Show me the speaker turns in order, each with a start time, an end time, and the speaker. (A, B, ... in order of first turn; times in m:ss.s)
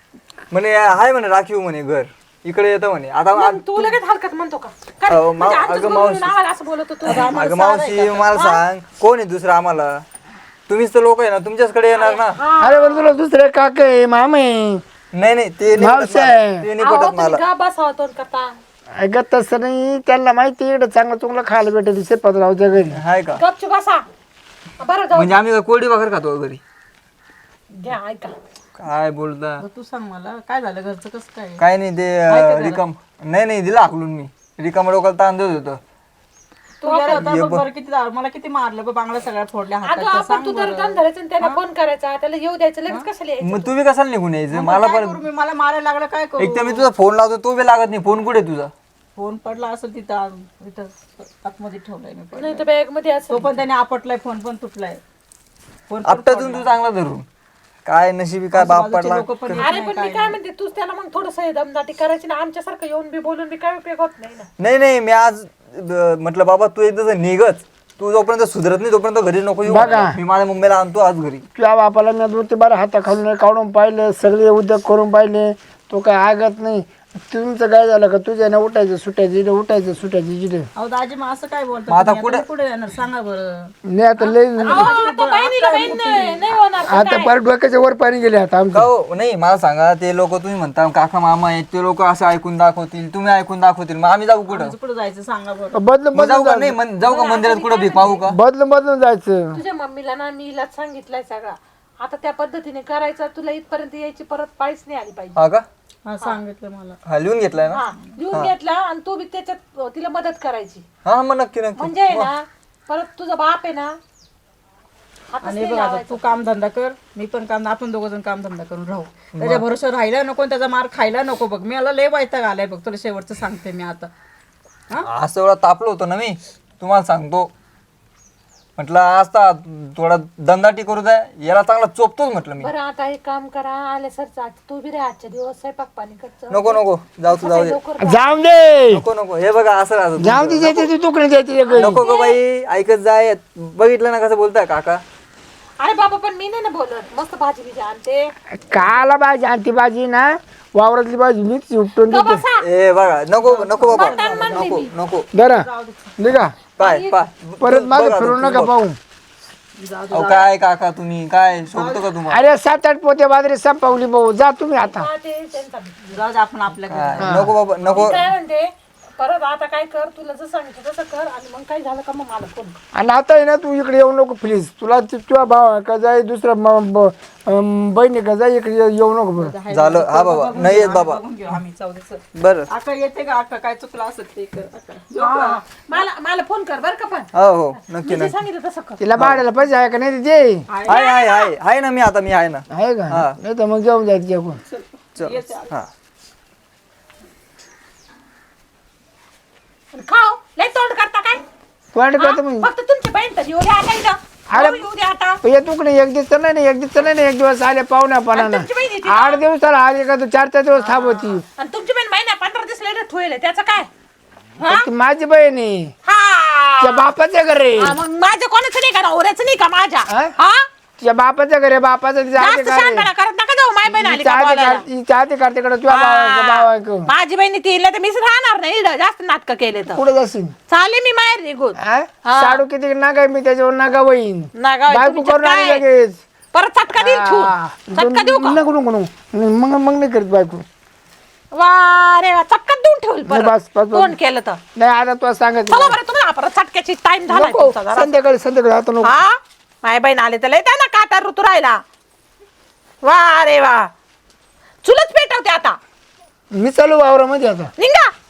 0:00.5-0:03.9 A
0:03.3-0:07.4 B
0:05.1-0:06.3 A
0:07.0-0:10.0 A
0:07.0-0:08.3 C
0:08.3-0:08.6 B
0:10.7-0:12.4 A
0:11.9-0:13.1 B
0:12.6-0:14.8 D
0:15.1-0:17.4 A
0:15.7-0:16.7 D
0:16.8-0:18.5 B
0:19.0-0:23.0 D
0:22.9-0:23.4 A
0:23.4-0:24.0 B
0:24.8-0:25.4 B
0:25.1-0:26.6 A
0:27.7-0:28.3 B
0:28.8-0:29.6 A
0:29.6-0:31.6 C
0:31.6-0:35.8 A
0:32.3-0:32.8 C
0:36.8-0:41.6 C
0:36.8-0:37.3 B
0:37.1-0:37.6 A
0:39.8-0:43.7 B
0:43.4-0:45.2 A
0:44.5-0:46.8 C
0:46.4-0:48.7 A
0:49.2-0:52.6 C
0:52.4-0:53.6 B
0:53.3-0:55.0 C
0:55.9-0:56.7 C
0:56.0-0:57.2 A
0:57.8-0:59.6 A
0:58.5-1:00.4 C
0:59.6-1:04.5 B
1:04.6-1:11.4 A
1:09.6-1:10.2 D
1:11.5-1:20.7 D
1:20.8-1:23.7 C
1:21.9-1:22.4 A
1:23.8-1:24.9 D
1:24.6-1:26.5 C
1:24.7-1:27.3 B
1:26.9-1:28.9 D
1:28.7-1:34.7 A
1:34.5-1:35.8 C
1:35.7-1:36.8 D
1:36.1-1:38.4 A
1:37.0-1:38.2 B
1:38.3-1:39.6 D
1:39.5-1:45.4 B
1:45.4-1:45.6 A
1:46.0-1:47.0 C
1:47.0-1:48.5 A
1:47.7-1:50.8 B
1:51.0-1:52.3 A
1:51.8-1:54.0 B
1:55.3-1:56.3 B
1:55.4-2:04.1 C
1:59.4-1:59.6 A
2:05.0-2:07.5 A
2:08.8-2:12.7 A
2:12.6-2:18.2 B
2:16.5-2:17.8 A
2:18.0-2:19.0 D
2:18.9-2:20.9 A
2:20.2-2:22.0 D
2:21.7-2:22.4 B
2:21.8-2:25.0 A
2:25.8-2:28.3 B
2:28.5-2:32.4 D
2:32.1-2:32.6 B
2:32.6-2:35.2 A
2:33.4-2:34.9 C
2:33.9-2:34.9 B
2:35.3-2:36.5 D
2:35.5-2:36.2 C
2:36.8-2:37.2 B
2:36.8-2:38.7 A
2:37.6-2:39.0 D
2:39.8-2:40.5 C
2:40.1-2:42.4 A
2:41.7-2:42.1 C
2:42.3-2:45.1 D
2:44.8-2:46.1 B
2:46.1-2:47.5 C
2:46.9-2:48.3 A
2:47.2-2:47.5 D
2:47.9-2:52.8 B
2:52.9-2:59.6 D
2:59.4-3:05.6 C
2:59.7-3:01.2 A
3:02.4-3:02.7 A
3:05.2-3:09.0 B
3:07.3-3:08.4 A
3:09.0-3:10.6 D
3:09.1-3:09.4 A
3:10.7-3:11.0 C
3:10.9-3:13.4 A
3:10.9-3:11.5 B
3:12.7-3:14.6 D
3:14.7-3:15.7 C
3:15.2-3:15.9 A
3:19.9-3:21.4 B
3:21.9-3:22.7 D
3:22.2-3:25.4 B
3:24.5-3:24.8 D
3:25.4-3:31.4 D
3:28.3-3:29.4 B
3:30.8-3:33.9 B
3:34.6-3:34.9 B
3:34.6-3:35.9 D
3:36.0-3:37.1 B
3:36.8-3:38.0 D
3:37.8-3:40.6 B
3:40.1-3:40.3 D
3:41.0-3:43.1 D
3:42.4-3:44.8 B
3:43.8-3:47.1 D
3:45.9-3:50.0 B
3:49.9-3:50.5 D
3:50.7-3:52.6 B
3:51.8-3:56.2 D
3:54.6-3:55.8 B
3:56.5-3:58.6 B
3:57.0-4:00.6 D
4:01.5-4:04.6 B
4:03.3-4:04.2 D
4:04.8-4:06.0 D
4:05.7-4:08.1 B
4:07.3-4:09.1 D
4:09.0-4:11.8 B
4:13.0-4:13.9 B
4:14.8-4:15.8 B
4:16.5-4:17.7 D
4:17.8-4:18.1 B